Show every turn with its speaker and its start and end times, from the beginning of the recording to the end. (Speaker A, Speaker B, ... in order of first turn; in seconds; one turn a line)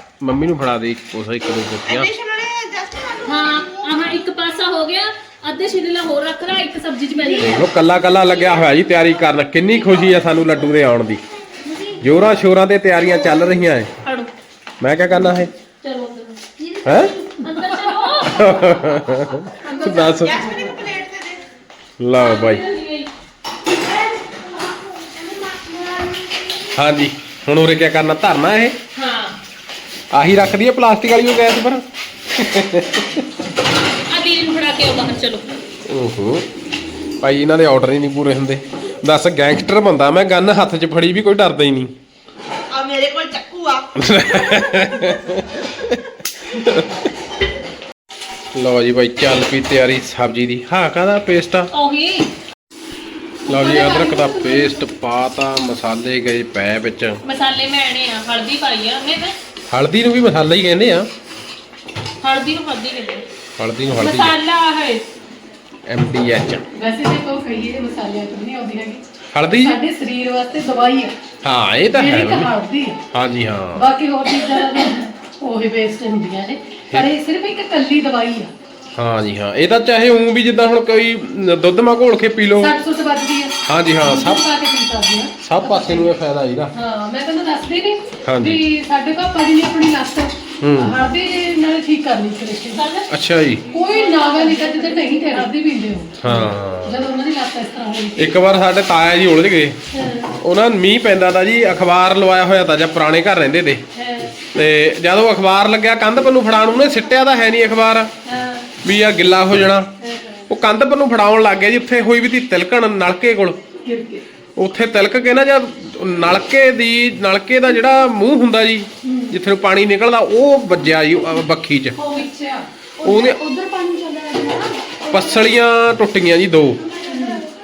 Speaker A: 0.2-2.1
Speaker B: 1.9-3.8
Speaker C: 3.2-7.6
Speaker A: 7.4-11.2
Speaker D: 11.7-12.0
Speaker A: 12.0-13.9
Speaker C: 14.0-14.3
Speaker A: 14.8-15.5
Speaker C: 15.8-16.4
Speaker D: 16.6-17.3
Speaker A: 16.8-17.2
Speaker C: 17.4-18.7
Speaker A: 18.2-20.4
Speaker B: 19.7-21.4
Speaker A: 22.0-22.6
Speaker C: 22.1-23.1
Speaker D: 25.3-26.1
Speaker A: 26.7-28.8
Speaker C: 28.9-29.4
Speaker A: 30.1-33.3
Speaker C: 34.1-35.5
Speaker A: 35.9-36.5
Speaker A: 37.2-41.9
Speaker B: 42.7-44.6
Speaker A: 44.0-47.0
Speaker A: 48.5-51.7
Speaker C: 51.7-52.3
Speaker A: 53.5-57.2
Speaker C: 53.5-54.8
Speaker C: 57.2-59.4
Speaker A: 59.7-61.1
Speaker C: 62.2-63.2
Speaker A: 63.6-64.3
Speaker C: 63.9-65.0
Speaker A: 65.9-66.6
Speaker E: 66.7-71.1
Speaker A: 69.3-69.8
Speaker A: 71.4-72.5
Speaker E: 71.9-73.0
Speaker A: 73.1-73.9
Speaker E: 73.8-78.5
Speaker A: 79.0-82.7
Speaker E: 82.6-86.1
Speaker A: 83.7-84.4
Speaker A: 85.4-86.7
Speaker E: 86.7-92.8
Speaker A: 88.2-88.6
Speaker A: 90.6-91.0
Speaker C: 92.7-95.5
Speaker A: 93.1-93.6
Speaker E: 93.7-98.4
Speaker A: 96.2-97.0
Speaker A: 98.2-99.8
Speaker E: 99.9-100.3
Speaker A: 100.4-103.8
Speaker C: 104.0-104.3
Speaker A: 104.4-108.1
Speaker E: 108.3-108.6
Speaker A: 108.8-109.9
Speaker E: 110.0-110.4
Speaker A: 110.5-113.6
Speaker E: 113.8-114.2
Speaker A: 114.6-122.0
Speaker E: 119.0-119.3
Speaker E: 122.0-122.7
Speaker D: 123.0-125.5
Speaker A: 123.0-123.4
Speaker A: 125.1-126.8
Speaker E: 127.0-127.4